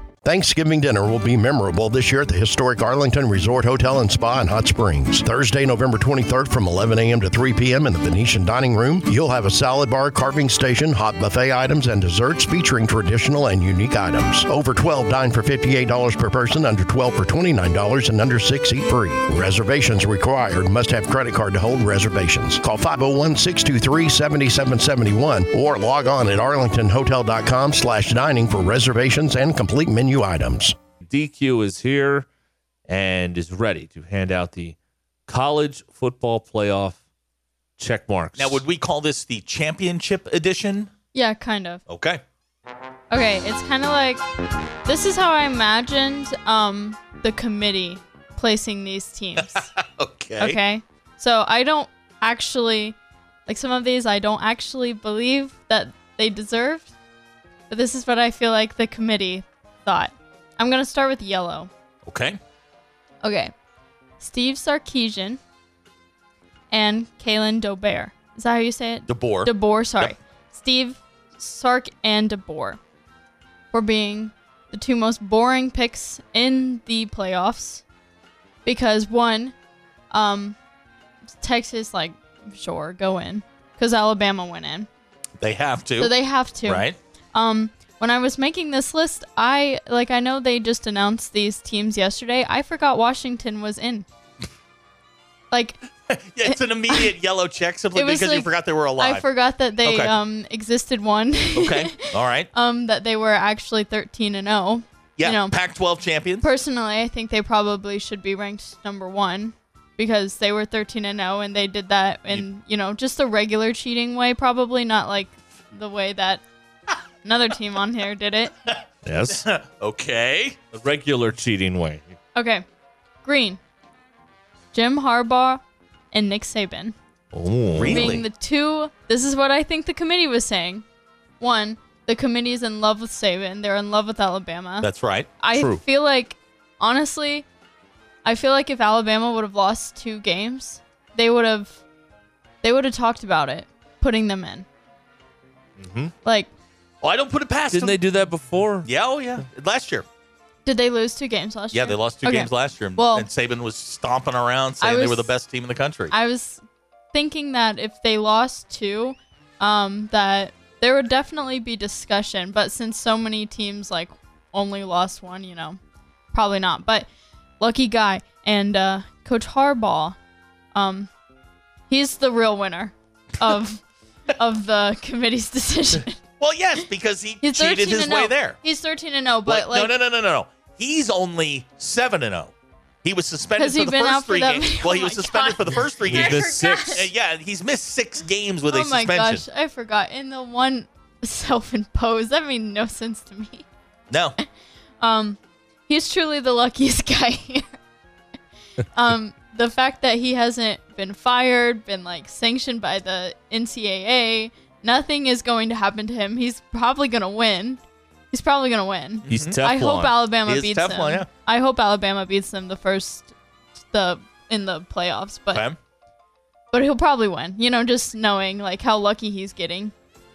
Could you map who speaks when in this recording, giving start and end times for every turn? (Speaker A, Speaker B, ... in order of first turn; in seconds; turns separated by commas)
Speaker A: 0.2-30.8, Speaker B: 31.0-32.3, Speaker B: 32.9-37.0, Speaker B: 37.8-38.6, Speaker C: 38.4-40.9, Speaker D: 41.1-41.8, Speaker C: 41.9-42.2, Speaker D: 43.1-44.2, Speaker D: 44.9-49.7, Speaker C: 49.4-50.6, Speaker D: 50.4-56.9, Speaker D: 57.7-61.7, Speaker C: 62.1-62.4, Speaker D: 63.2-63.5, Speaker D: 64.2-65.4, Speaker D: 66.7-72.8, Speaker C: 69.1-70.2, Speaker D: 73.7-77.8, Speaker D: 78.7-79.5, Speaker D: 80.1-80.6, Speaker D: 81.3-84.9, Speaker C: 85.4-86.1, Speaker D: 86.0-94.0, Speaker C: 86.7-87.0, Speaker D: 95.5-95.8, Speaker C: 96.1-99.2, Speaker D: 96.5-97.1, Speaker D: 98.0-105.6, Speaker C: 99.8-100.2, Speaker C: 101.5-102.5, Speaker C: 105.2-106.5, Speaker D: 106.4-116.4, Speaker D: 117.2-118.5, Speaker B: 119.0-119.5, Speaker C: 119.3-120.6, Speaker B: 120.7-122.2, Speaker D: 122.3-122.7, Speaker D: 123.2-123.6, Speaker D: 124.7-125.6, Speaker D: 126.1-127.0, Speaker B: 127.3-128.1, Speaker C: 127.8-128.2, Speaker D: 127.9-130.8, Speaker D: 131.4-134.9, Speaker C: 134.8-135.3, Speaker D: 135.4-137.4, Speaker B: 135.6-135.8, Speaker D: 138.2-141.8, Speaker D: 142.6-144.7, Speaker B: 145.8-146.1, Speaker C: 147.0-148.0, Speaker B: 147.7-148.9, Speaker C: 148.8-150.1, Speaker D: 150.7-153.3, Speaker C: 151.7-156.1, Speaker D: 154.8-155.3, Speaker D: 156.1-156.6, Speaker D: 157.1-165.8, Speaker D: 166.3-167.1, Speaker D: 167.6-170.2, Speaker D: 170.8-171.1, Speaker D: 171.9-173.8, Speaker D: 174.3-176.2, Speaker C: 176.4-178.6, Speaker D: 177.4-179.9, Speaker C: 179.5-182.5, Speaker C: 183.0-189.4, Speaker D: 183.6-187.1, Speaker B: 186.1-187.1, Speaker D: 188.7-193.7, Speaker C: 194.1-194.4, Speaker D: 195.0-197.7, Speaker D: 198.9-213.3, Speaker C: 209.3-209.6, Speaker B: 209.3-210.1, Speaker C: 210.5-211.3, Speaker D: 213.9-215.7, Speaker C: 215.5-215.8, Speaker D: 216.7-219.9